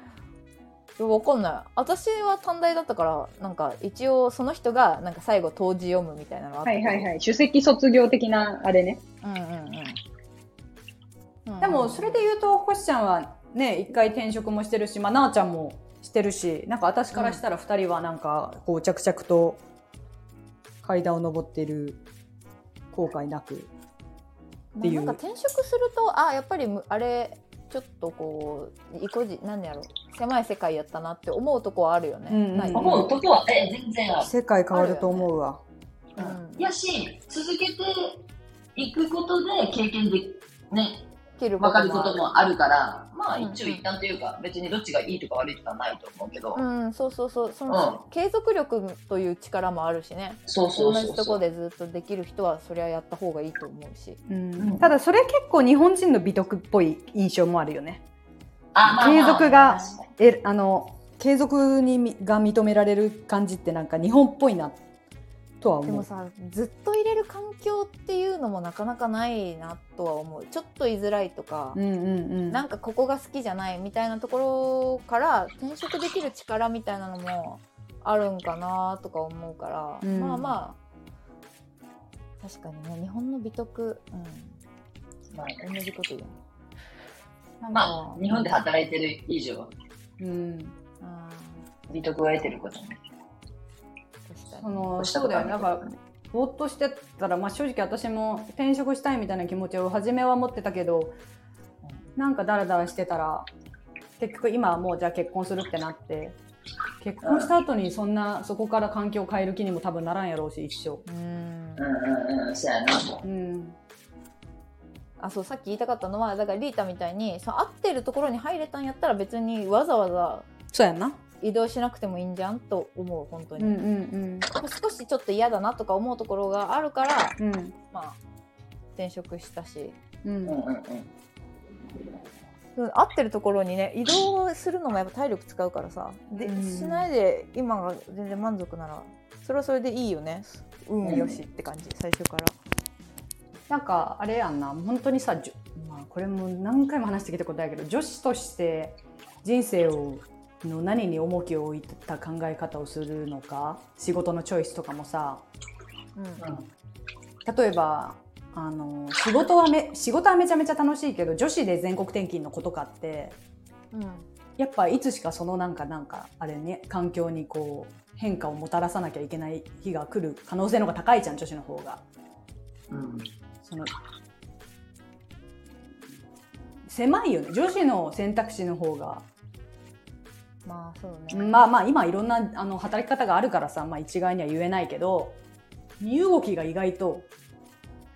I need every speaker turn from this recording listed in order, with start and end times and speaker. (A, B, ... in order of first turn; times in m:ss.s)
0:01.0-0:07.1 A
0:06.6-0:09.0 B
0:09.2-0:10.0 A
0:11.4-0:12.3 A
0:11.6-0:19.6 C
0:17.1-0:17.4 A
0:20.8-0:22.0 C
0:22.9-0:23.7 C
0:24.7-0:32.8 A
0:24.8-0:25.2 C
0:32.3-0:33.1 C
0:32.7-0:34.3 D
0:34.2-0:35.6 C
0:34.7-0:35.3 A
0:36.2-0:38.2 D
0:36.2-0:36.7 A
0:38.7-0:41.1 D
0:41.4-0:42.2 A
0:41.6-0:46.6 D
0:43.4-0:43.8 A
0:46.5-0:54.2 A
0:47.7-0:48.0 D
0:50.5-0:51.4 D
0:54.3-0:58.0 C
0:54.6-0:54.9 D
0:58.7-1:00.0 D
0:58.8-1:04.8 C
0:59.0-1:00.0 A
1:05.6-1:06.0 C
1:05.8-1:11.8 A
1:11.7-1:12.6 C
1:12.5-1:20.8 A
1:20.0-1:20.5 C
1:22.4-1:24.6 A
1:25.3-1:25.6 D
1:25.6-1:26.4 A
1:27.6-1:28.5 C
1:27.7-1:29.7 D
1:30.2-1:30.7 C
1:31.0-1:31.6 A
1:31.9-1:33.0 D
1:34.3-1:34.8 A
1:34.6-1:41.2 C
1:35.0-1:35.9 D
1:42.2-1:43.5 C
1:44.2-1:46.4 C
1:47.0-1:51.0 C
1:47.2-1:47.5 D
1:51.0-1:51.9 A
1:51.8-1:53.2 D
1:53.2-1:53.8 C
1:55.2-2:00.5 A
2:00.7-2:01.2 C
2:01.4-2:03.8 A
2:03.6-2:04.5 C
2:04.5-2:07.4 A
2:07.4-2:07.7 C
2:07.9-2:08.2 A
2:09.0-2:10.0 A
2:10.2-2:10.6 C
2:10.4-2:11.1 D
2:12.8-2:22.5 A
2:16.4-2:17.1 C
2:21.0-2:21.4 D
2:23.7-2:35.4 C
2:36.2-2:36.4 A
2:36.4-2:36.6 D
2:37.4-2:43.4 C
2:43.9-2:44.3 A
2:44.6-2:52.0 C
2:52.9-2:53.3 D
2:53.6-2:53.9 C
2:56.9-2:59.2 C
3:00.6-3:01.6 A
3:01.3-3:05.4 C
3:06.0-3:07.3 C